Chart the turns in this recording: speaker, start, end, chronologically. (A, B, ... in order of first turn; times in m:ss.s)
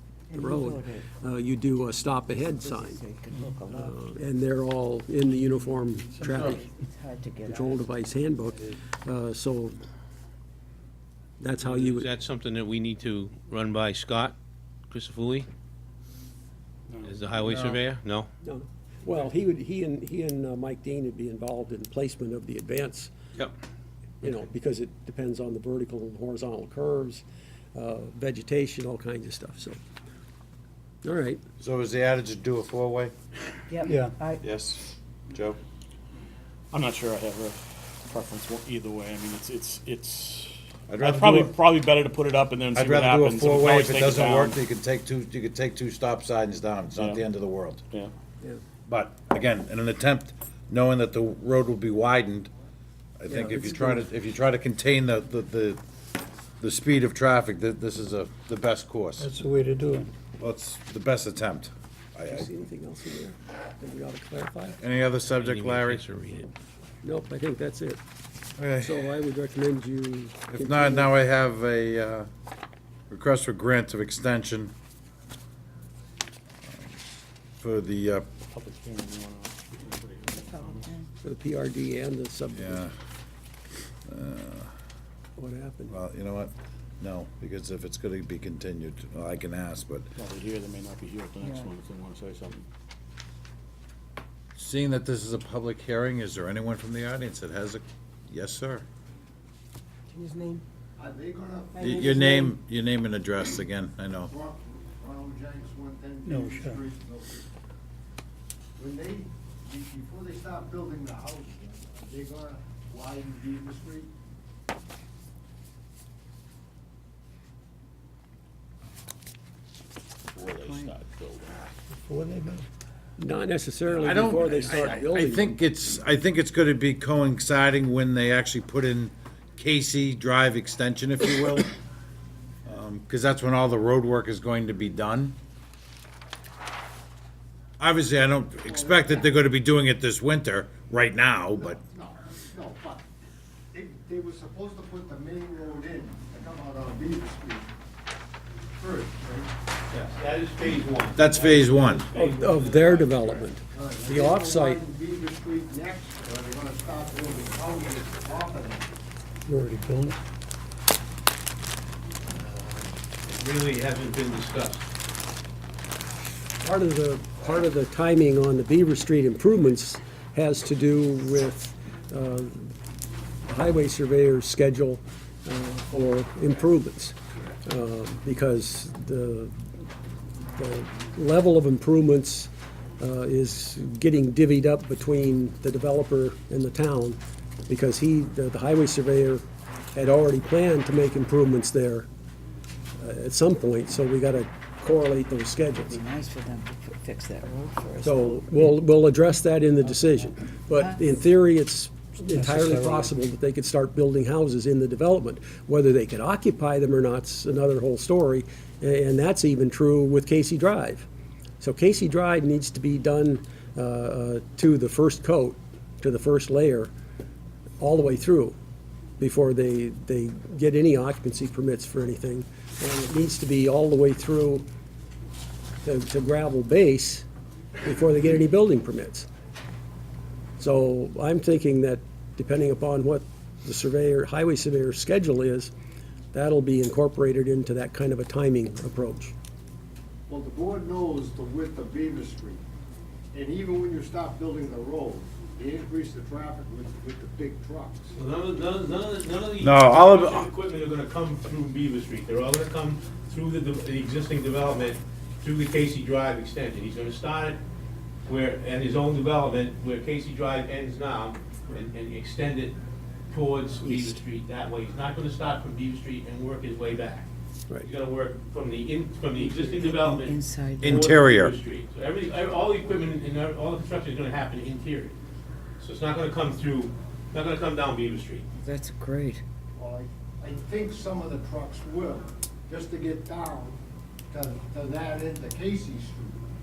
0:00.3-0:01.1 A
0:00.3-0:03.0 B
0:02.1-0:04.2 A
0:03.7-0:06.7 B
0:06.2-0:08.1 A
0:07.4-0:09.8 B
0:11.4-0:12.1 B
0:11.6-0:14.4 C
0:14.9-0:15.5 C
0:16.9-0:17.2 D
0:17.0-0:18.3 C
0:17.4-0:17.8 E
0:18.4-0:23.1 B
0:24.2-0:29.8 B
0:31.0-0:31.4 B
0:31.6-0:33.1 E
0:33.7-0:34.4 A
0:33.9-0:34.2 F
0:34.4-0:35.6 E
0:36.7-0:44.6 D
0:40.9-0:41.6 E
0:42.7-0:47.8 E
0:47.0-0:47.2 D
0:48.9-0:52.5 E
0:53.2-0:55.8 E
0:53.3-0:54.1 B
0:56.6-0:59.3 E
0:59.2-1:00.1 F
1:00.4-1:02.5 E
1:02.3-1:04.8 B
1:04.8-1:06.0 E
1:05.3-1:06.5 C
1:07.0-1:08.0 B
1:08.6-1:09.1 E
1:08.8-1:11.1 B
1:10.5-1:12.3 E
1:13.1-1:14.7 E
1:16.7-1:17.0 E
1:17.6-1:18.3 E
1:18.5-1:21.0 D
1:20.3-1:21.1 A
1:21.2-1:22.9 B
1:22.6-1:22.9 E
1:24.1-1:24.7 E
1:25.4-1:26.0 B
1:25.9-1:30.1 E
1:30.2-1:32.7 D
1:34.6-1:38.8 E
1:40.1-1:40.6 A
1:41.0-1:42.4 G
1:41.8-1:44.3 E
1:44.3-1:47.5 G
1:46.2-1:46.8 F
1:48.8-1:54.1 G
2:00.4-2:01.5 D
2:01.9-2:02.7 F
2:03.2-2:05.6 B
2:03.9-2:11.7 E
2:12.7-2:15.4 E
2:17.8-2:21.8 E
2:18.7-2:19.2 G
2:21.6-2:23.0 G
2:23.7-2:27.7 G
2:28.8-2:29.5 G
2:29.9-2:33.5 C
2:31.2-2:32.1 E
2:32.1-2:34.8 B
2:33.7-2:38.9 G
2:39.5-2:40.2 F
2:42.3-2:44.9 C
2:46.6-2:52.7 B
2:53.5-2:59.6 B
3:00.6-3:09.4 B
3:10.0-3:12.1 B
3:13.0-3:16.0 B
3:15.8-3:18.5 A
3:18.0-3:31.1 B
3:19.9-3:21.0 A
3:22.4-3:23.1 F
3:31.6-3:36.9 B
3:37.8-3:38.6 B
3:39.2-3:44.7 B
3:45.8-3:47.3 B
3:47.8-3:49.3 B
3:50.6-3:55.7 B
3:56.3-3:59.3 B
4:00.3-4:02.6 G
4:03.3-4:08.1 G
4:08.2-4:17.6 C
4:09.6-4:10.5 E
4:18.3-4:22.8 C
4:23.3-4:27.3 C
4:23.8-4:24.2 B
4:27.8-4:35.2 C
4:29.5-4:31.0 A
4:30.8-4:31.6 E
4:35.8-4:38.5 C
4:38.5-4:39.4 A
4:39.8-4:43.8 G
4:44.3-4:46.4 G